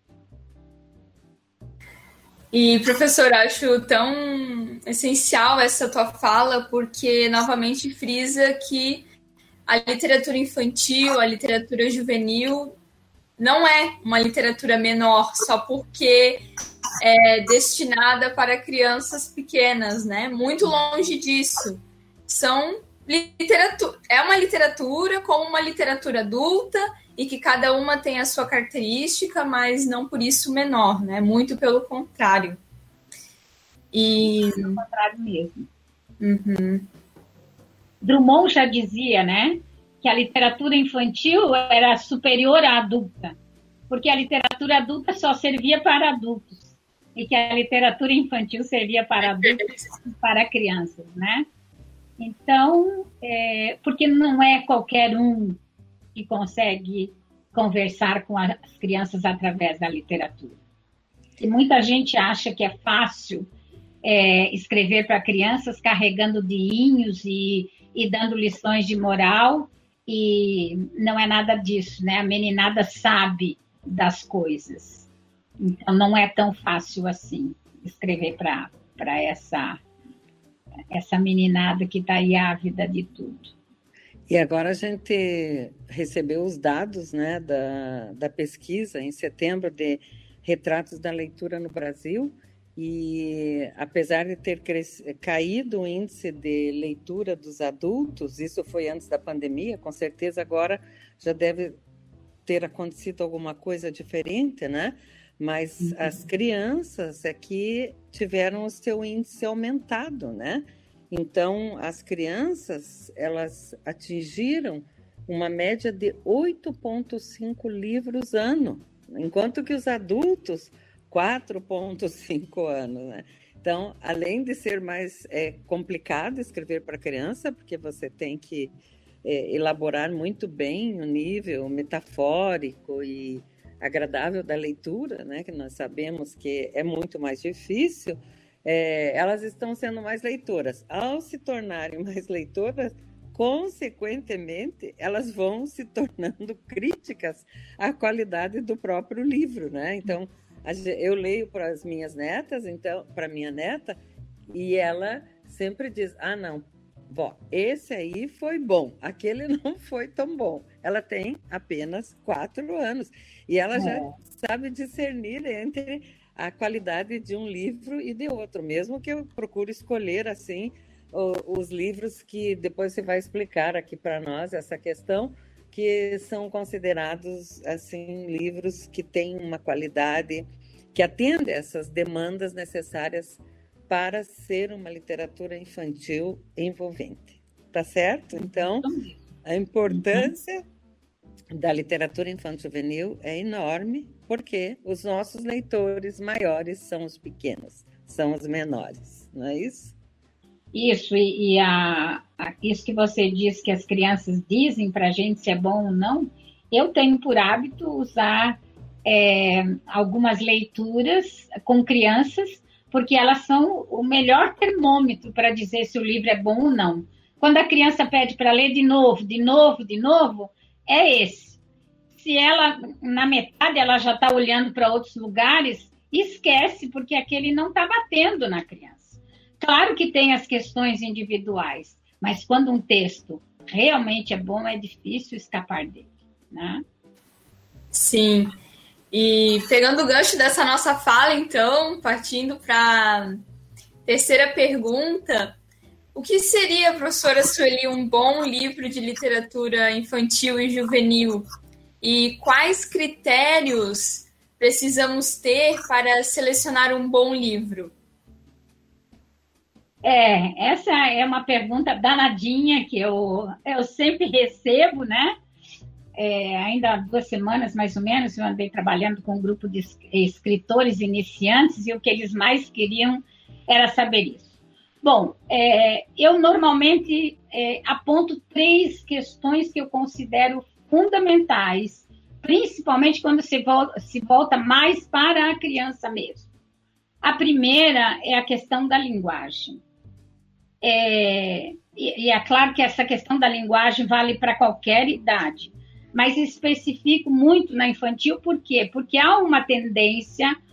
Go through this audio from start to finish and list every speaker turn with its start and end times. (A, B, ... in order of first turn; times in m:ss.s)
0:02.5-0:09.0 A
0:09.7-0:12.8 A
0:13.4-0:16.4 A
0:17.0-0:32.6 A
0:33.9-0:34.8 A
0:34.4-0:35.7 B
0:36.2-0:36.9 A
0:38.0-0:43.4 B
0:43.9-0:51.5 B
0:52.2-0:55.6 B
0:56.1-1:00.6 B
1:01.4-1:03.5 B
1:04.0-1:15.1 B
1:15.6-1:19.8 B
1:20.9-1:23.5 B
1:24.3-1:41.8 C
1:42.4-2:08.7 C
1:45.8-1:46.2 B
2:09.2-2:34.0 C
2:34.5-3:08.9 C
2:43.7-2:44.1 B
3:08.4-3:09.2 B
3:09.4-3:10.6 C
3:09.9-3:10.3 B
3:11.5-3:19.9 C
3:20.7-3:41.6 B
3:42.1-3:56.8 B
3:57.9-3:58.6 A
3:59.1-4:03.4 A
4:04.1-4:05.6 A
4:06.1-4:11.4 A
4:12.0-4:17.9 A
4:20.0-4:25.3 B
4:26.2-4:34.5 B
4:35.0-4:46.5 B
4:47.2-4:49.8 B
4:50.8-5:00.6 B